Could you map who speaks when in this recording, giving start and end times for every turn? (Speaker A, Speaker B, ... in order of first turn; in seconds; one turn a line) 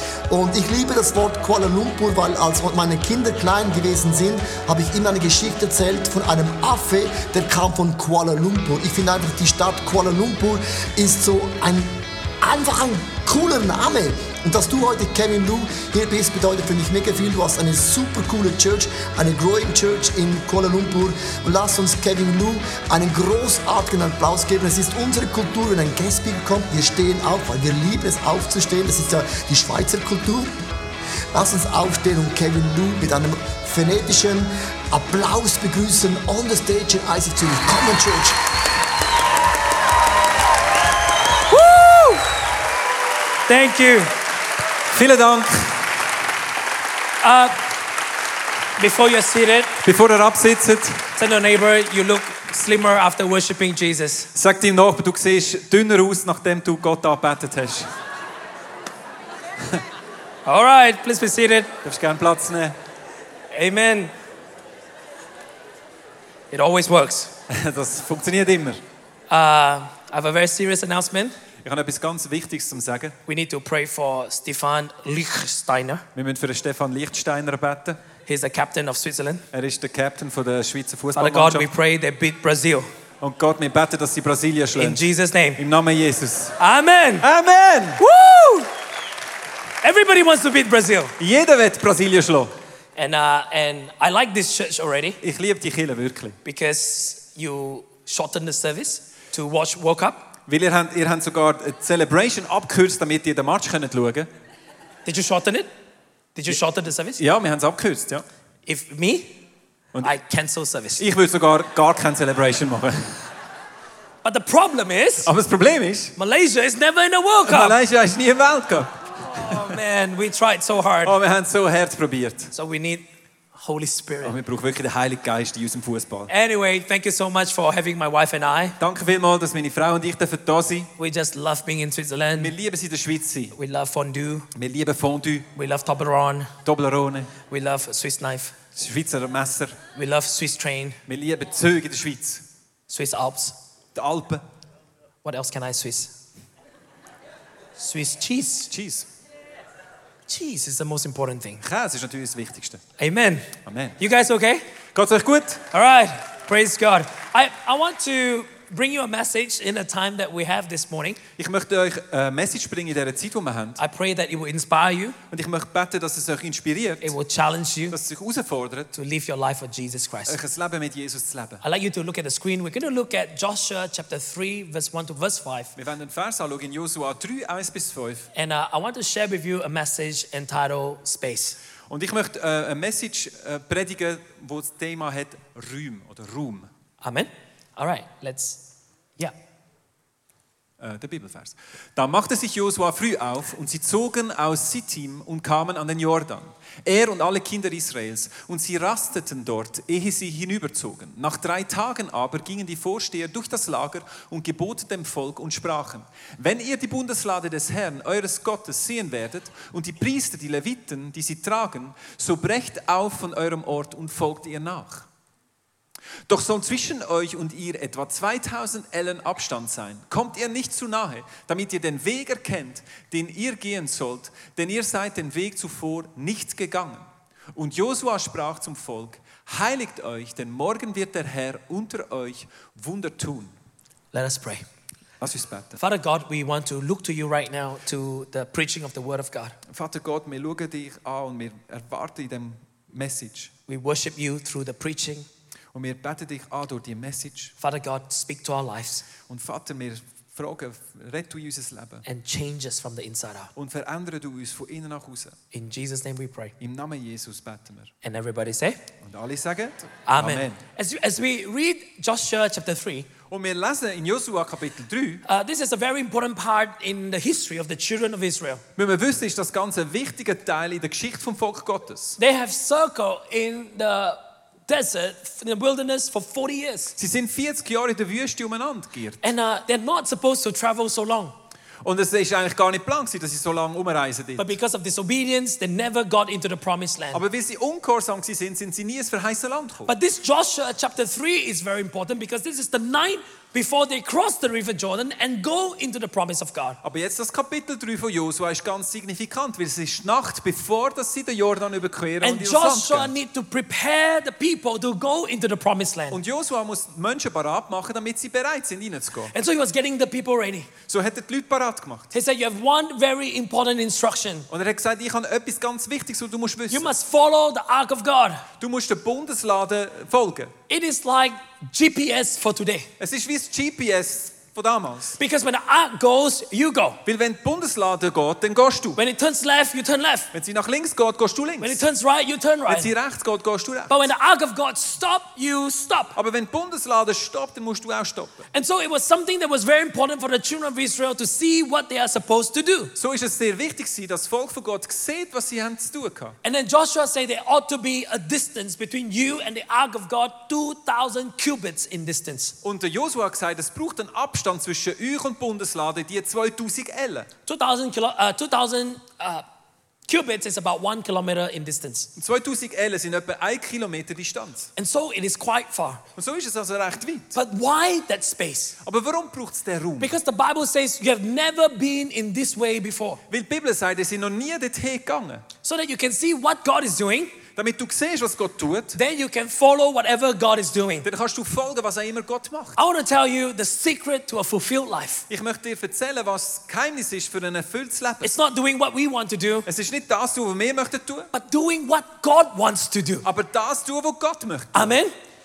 Speaker A: 0.3-30.5
Speaker A: 31.3-38.4
Speaker B: 41.5-42.2
Speaker B: 43.5-44.1
Speaker C: 44.9-45.8
Speaker B: 47.2-47.6
Speaker B: 48.8-49.7
Speaker C: 49.8-51.0
Speaker B: 51.2-54.3
Speaker C: 54.3-57.9
Speaker B: 60.5-61.7
Speaker C: 61.8-62.8
Speaker B: 63.5-64.1
Speaker B: 66.5-67.3
Speaker C: 67.5-68.8
Speaker B: 69.3-71.4
Speaker C: 71.6-73.2
Speaker B: 73.3-76.0
Speaker C: 76.1-78.0
Speaker B: 78.2-79.4
Speaker C: 79.5-81.7
Speaker B: 81.1-82.9
Speaker C: 83.2-85.0
Speaker B: 84.8-85.6
Speaker C: 85.6-86.5
Speaker B: 86.6-87.3
Speaker C: 87.2-88.0
Speaker B: 88.0-88.7
Speaker B: 89.8-91.1
Speaker C: 91.2-92.5
Speaker B: 93.0-95.2
Speaker C: 95.2-96.4
Speaker B: 96.4-100.2
Speaker C: 100.5-104.3
Speaker B: 105.0-105.7
Speaker B: 106.3-107.2
Speaker C: 107.2-108.2
Speaker B: 108.7-109.4
Speaker B: 110.0-111.0
Speaker C: 111.0-113.2
Speaker B: 114.2-115.3
Speaker C: 115.2-116.2
Speaker B: 116.2-117.8
Speaker C: 117.5-119.8
Speaker B: 119.2-121.2
Speaker C: 121.0-122.5
Speaker B: 122.5-124.4
Speaker C: 124.2-126.3
Speaker B: 126.3-128.8
Speaker C: 128.8-130.9
Speaker B: 131.0-132.5
Speaker C: 132.4-133.5
Speaker B: 133.5-134.5
Speaker C: 134.5-135.5
Speaker B: 135.6-136.5
Speaker C: 136.7-137.3
Speaker B: 137.5-138.5
Speaker C: 138.8-139.8
Speaker B: 139.9-141.0
Speaker C: 141.1-142.4
Speaker B: 142.9-143.6
Speaker C: 143.9-144.4
Speaker B: 145.2-146.1
Speaker B: 147.8-148.7
Speaker C: 148.7-149.1
Speaker B: 150.3-151.6
Speaker C: 151.6-152.8
Speaker B: 153.0-153.5
Speaker C: 153.7-154.0
Speaker B: 154.0-154.6
Speaker C: 154.9-155.6
Speaker B: 155.7-161.2
Speaker C: 161.4-163.8
Speaker B: 163.8-165.2
Speaker C: 165.3-167.2
Speaker B: 167.0-168.0
Speaker C: 167.9-168.9
Speaker B: 168.9-170.4
Speaker C: 170.2-171.6
Speaker B: 171.6-175.7
Speaker C: 175.8-178.3
Speaker B: 178.3-181.6
Speaker C: 181.9-186.7
Speaker B: 187.0-188.6
Speaker C: 190.8-215.1
Speaker C: 216.3-233.5
Speaker B: 234.1-234.6
Speaker C: 235.2-235.8
Speaker B: 235.8-239.6
Speaker C: 239.7-243.5
Speaker B: 243.7-245.3
Speaker C: 245.7-247.5
Speaker B: 247.6-249.1
Speaker C: 249.3-252.0
Speaker B: 252.1-253.5
Speaker C: 253.6-255.4
Speaker B: 255.5-256.5
Speaker C: 256.6-257.9
Speaker B: 258.0-258.8
Speaker C: 259.0-260.6
Speaker B: 260.1-263.1
Speaker C: 263.3-265.2
Speaker B: 265.2-268.6
Speaker C: 268.8-272.2
Speaker B: 272.2-276.9
Speaker C: 277.0-279.2
Speaker B: 279.2-281.3
Speaker C: 281.8-284.5
Speaker B: 284.4-287.2
Speaker C: 287.1-289.9
Speaker B: 289.9-296.8
Speaker C: 296.8-303.1
Speaker B: 302.2-306.2
Speaker C: 306.1-309.3
Speaker B: 309.3-310.7
Speaker C: 310.9-312.1
Speaker B: 312.1-314.5
Speaker C: 314.5-316.9
Speaker B: 316.7-318.4
Speaker C: 318.6-320.5
Speaker B: 320.7-322.9
Speaker C: 323.0-325.2
Speaker B: 325.2-327.0
Speaker C: 327.1-329.0
Speaker B: 328.9-330.3
Speaker C: 330.3-331.8
Speaker B: 331.6-332.9
Speaker C: 332.7-334.1
Speaker B: 333.9-336.1
Speaker C: 336.1-338.4
Speaker B: 338.5-342.9
Speaker C: 342.9-346.4
Speaker B: 346.4-352.6
Speaker C: 352.6-357.3
Speaker B: 357.4-359.4
Speaker B: 360.1-362.1
Speaker C: 362.2-364.7
Speaker B: 364.8-366.0
Speaker C: 366.1-367.3
Speaker B: 367.3-368.8
Speaker C: 368.8-370.1
Speaker B: 370.0-373.2
Speaker C: 373.3-375.4
Speaker B: 375.6-377.4
Speaker C: 377.6-379.0
Speaker B: 378.9-381.1
Speaker C: 381.0-382.8
Speaker B: 382.8-385.2
Speaker C: 385.3-388.3
Speaker B: 388.2-389.7
Speaker C: 389.6-391.3
Speaker B: 391.3-393.2
Speaker C: 393.2-395.0
Speaker B: 394.7-395.1